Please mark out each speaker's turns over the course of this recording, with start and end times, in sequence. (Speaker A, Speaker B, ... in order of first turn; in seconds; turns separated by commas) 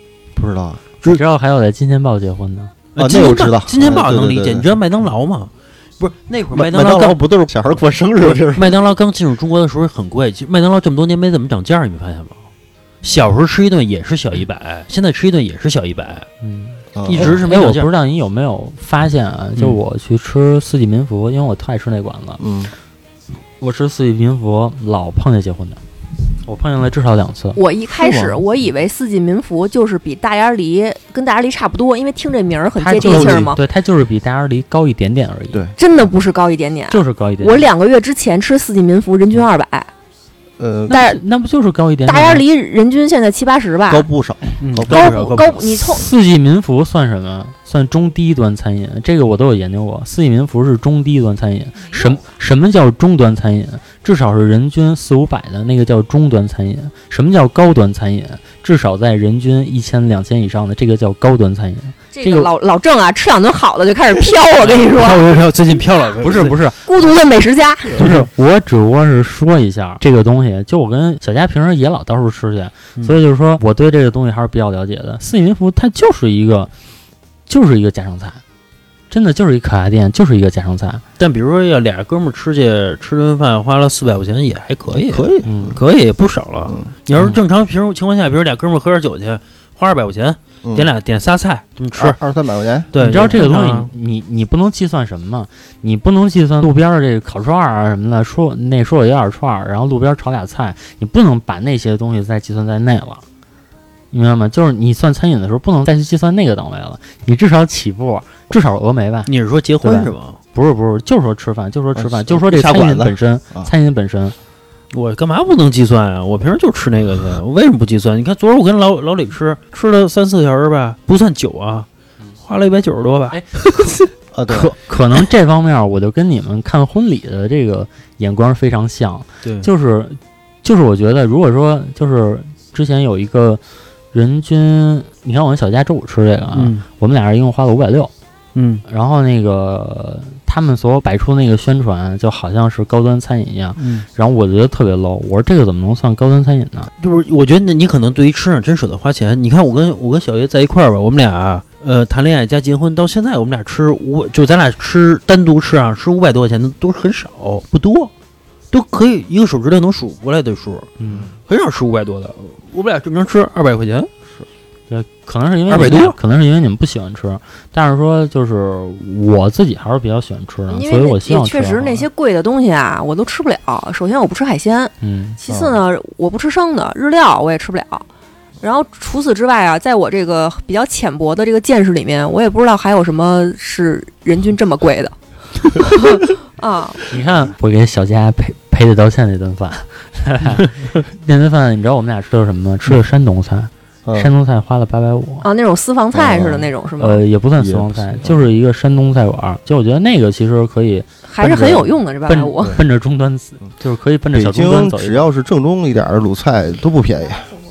Speaker A: 0.3-0.9, Speaker B: 1.0-2.7, Speaker C: 3.0-7.2, Speaker A: 3.0-4.7, Speaker A: 6.5-8.7, Speaker C: 8.2-12.4, Speaker C: 13.0-16.3, Speaker B: 16.4-22.4, Speaker A: 16.9-17.4, Speaker C: 17.1-17.9, Speaker A: 22.4-22.7, Speaker B: 23.6-25.8, Speaker B: 26.4-27.6, Speaker D: 27.6-33.6, Speaker A: 27.9-28.4, Speaker B: 32.8-35.6, Speaker A: 33.0-33.5, Speaker D: 35.8-39.9, Speaker B: 36.9-37.7, Speaker A: 40.6-41.0, Speaker B: 40.9-42.5, Speaker D: 40.9-41.2, Speaker D: 42.1-44.1, Speaker A: 43.9-45.5, Speaker C: 44.6-45.6, Speaker D: 44.9-46.1, Speaker B: 45.9-62.5, Speaker D: 62.1-65.2, Speaker C: 64.6-66.6, Speaker B: 66.2-66.9, Speaker D: 66.9-68.0, Speaker B: 67.9-76.7, Speaker C: 68.0-68.3, Speaker B: 77.5-78.4, Speaker B: 79.1-81.0, Speaker C: 81.2-92.2, Speaker A: 84.9-85.8, Speaker B: 85.4-85.8, Speaker A: 86.7-86.9, Speaker A: 92.0-93.4, Speaker C: 92.9-93.9, Speaker B: 93.0-103.2, Speaker B: 104.1-114.4, Speaker C: 109.3-110.4, Speaker A: 112.0-113.7, Speaker C: 114.9-121.9, Speaker C: 122.4-124.7, Speaker A: 124.3-124.7, Speaker B: 124.6-133.6, Speaker B: 134.1-138.1, Speaker C: 136.5-136.8, Speaker C: 138.6-138.8, Speaker B: 138.9-146.9, Speaker C: 143.8-144.1, Speaker C: 147.0-158.1, Speaker C: 158.7-160.9, Speaker B: 161.0-161.3, Speaker C: 161.5-164.1, Speaker B: 164.9-172.1, Speaker C: 165.7-166.2, Speaker D: 170.7-178.1, Speaker B: 175.0-175.4, Speaker A: 175.5-175.8, Speaker D: 178.6-185.1, Speaker D: 185.7-187.0, Speaker B: 187.1-195.5, Speaker A: 194.1-194.3, Speaker D: 195.4-197.2, Speaker A: 196.1-196.7, Speaker B: 197.0-205.3, Speaker A: 197.6-198.4, Speaker D: 201.3-202.8, Speaker A: 204.3-207.6